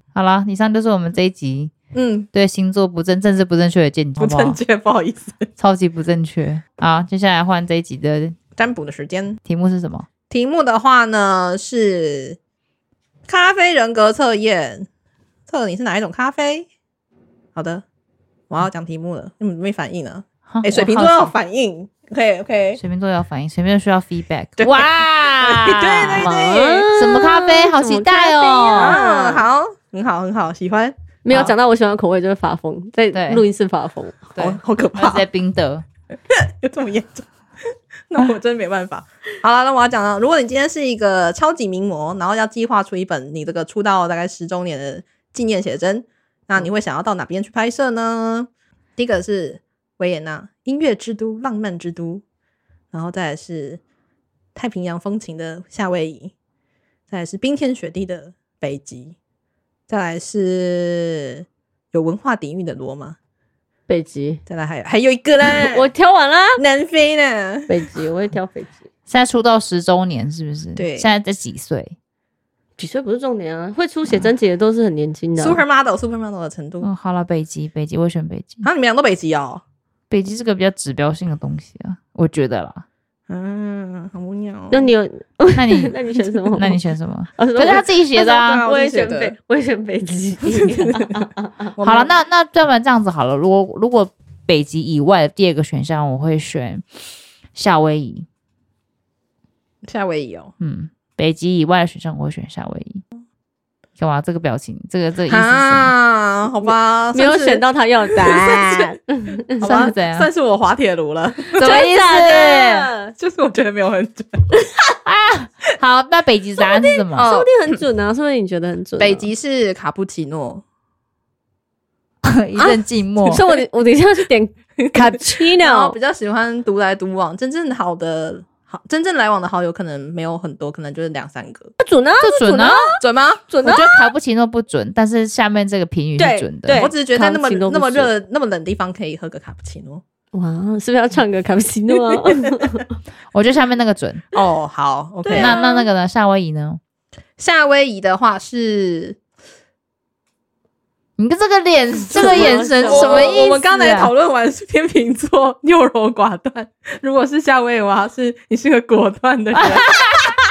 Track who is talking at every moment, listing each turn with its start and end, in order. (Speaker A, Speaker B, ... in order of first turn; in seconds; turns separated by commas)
Speaker A: 0.1-1.7, Speaker B: 1.9-2.3, Speaker A: 2.3-4.6, Speaker B: 4.2-5.5, Speaker A: 5.6-8.4, Speaker B: 8.6-9.4, Speaker A: 9.4-10.1, Speaker B: 10.3-12.4, Speaker B: 13.3-14.9, Speaker B: 15.5-16.7, Speaker B: 17.5-17.8, Speaker B: 18.5-22.8, Speaker A: 20.5-21.3, Speaker A: 22.8-26.3, Speaker B: 24.6-24.9, Speaker B: 25.4-26.9, Speaker C: 26.2-29.4, Speaker A: 27.0-29.0, Speaker B: 28.7-30.9, Speaker C: 31.2-34.3, Speaker A: 33.1-33.4, Speaker B: 34.4-35.2, Speaker A: 34.4-35.8, Speaker B: 36.3-37.2, Speaker B: 38.1-52.2, Speaker B: 52.9-53.8, Speaker B: 54.5-56.3, Speaker B: 57.1-59.1, Speaker B: 59.9-63.1, Speaker C: 63.9-64.4, Speaker B: 64.5-65.9, Speaker C: 65.5-66.6, Speaker B: 66.6-67.7, Speaker C: 67.7-68.8, Speaker A: 69.1-72.0, Speaker B: 70.8-71.1, Speaker C: 72.8-75.6, Speaker B: 75.4-76.9, Speaker A: 76.8-78.7, Speaker B: 78.6-79.6, Speaker A: 80.1-82.8, Speaker B: 83.3-84.9, Speaker C: 84.7-86.8, Speaker A: 85.5-86.0, Speaker A: 86.5-88.6, Speaker C: 87.4-91.7, Speaker B: 88.2-89.3, Speaker B: 91.8-92.1, Speaker A: 91.8-96.8, Speaker A: 97.5-98.3, Speaker B: 99.8-100.5, Speaker A: 100.6-103.0, Speaker A: 104.0-105.9, Speaker B: 105.3-108.9, Speaker C: 107.1-109.6, Speaker B: 109.5-111.6, Speaker A: 109.6-110.3, Speaker A: 111.5-112.9, Speaker C: 111.6-113.1, Speaker B: 113.2-114.5, Speaker A: 115.0-117.3, Speaker C: 116.6-119.3, Speaker B: 117.1-117.8, Speaker B: 119.0-120.6, Speaker A: 122.2-123.4, Speaker C: 122.6-125.9, Speaker B: 124.8-131.7, Speaker C: 131.8-134.1, Speaker A: 132.2-132.9, Speaker B: 133.0-133.5, Speaker A: 133.6-136.9, Speaker C: 136.2-138.1, Speaker B: 136.7-140.0, Speaker C: 140.3-142.8, Speaker A: 143.3-144.2, Speaker B: 144.3-145.6, Speaker C: 145.2-145.8, Speaker A: 145.3-146.8, Speaker B: 147.4-149.2, Speaker A: 151.2-154.1, Speaker C: 152.1-153.4, Speaker B: 152.1-159.9, Speaker A: 159.6-160.3